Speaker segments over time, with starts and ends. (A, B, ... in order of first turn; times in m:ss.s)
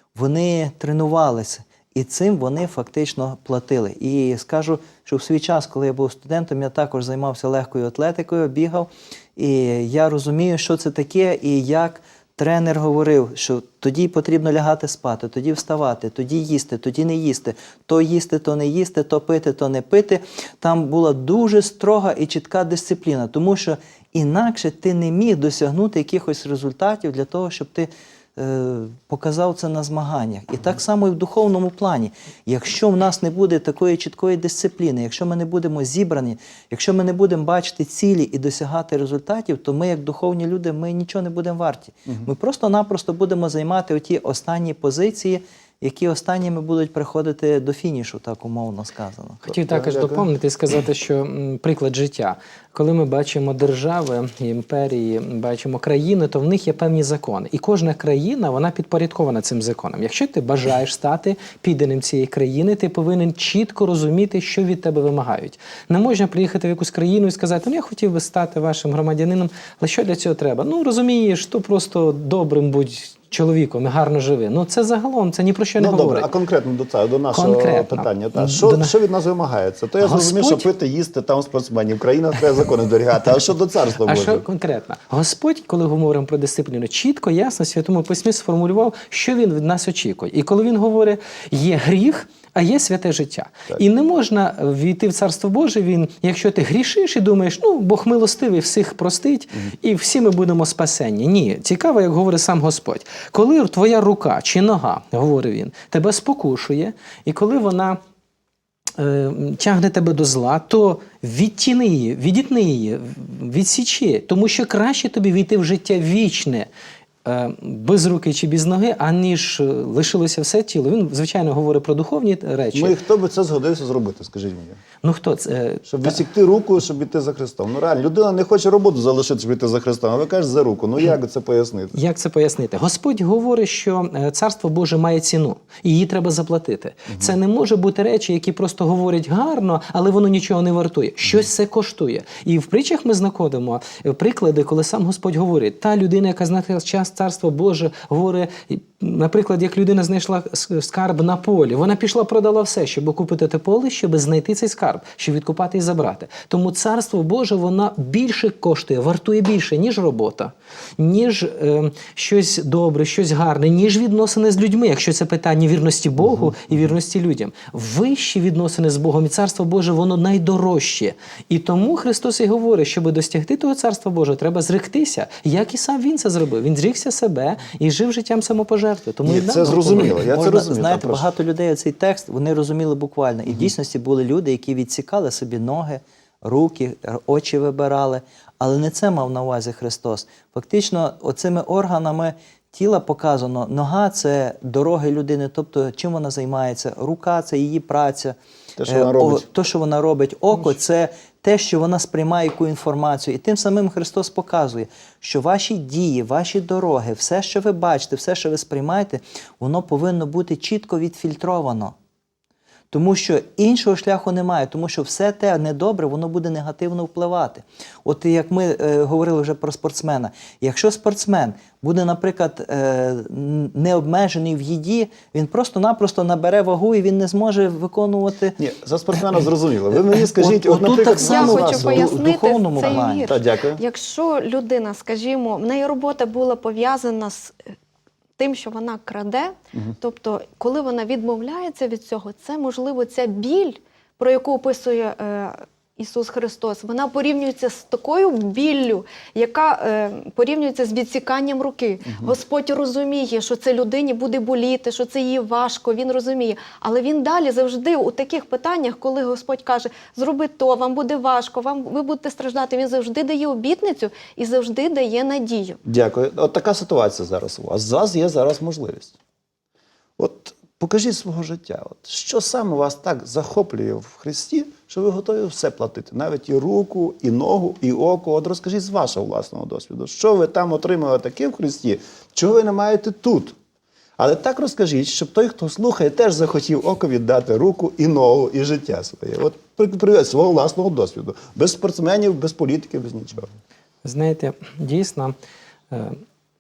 0:00.2-0:49.5 A
0:49.5-1:16.3 B
0:49.5-0:50.3 C
1:15.8-1:24.4 C
1:17.3-1:18.9 B
1:20.0-1:20.7 B
1:24.0-1:48.0 B
1:49.0-1:56.7 B
1:57.2-2:03.0 B
2:02.7-2:04.8 C
2:05.0-2:06.2 B
2:05.9-2:12.0 C
2:11.9-3:00.2 B
2:46.2-2:46.9 C
2:59.2-3:01.3 C
2:59.6-3:32.0 A
3:18.8-3:19.4 C
3:32.9-3:48.6 A
3:48.6-3:52.2 C
3:50.4-3:53.3 A
3:51.2-3:57.6 D
3:52.8-3:53.8 C
3:58.4-4:25.8 D
4:12.1-4:12.4 C
4:25.8-4:29.1 C
4:30.2-4:43.6 C
4:44.2-4:53.5 C
4:54.0-4:55.3 B
4:55.9-4:56.2 B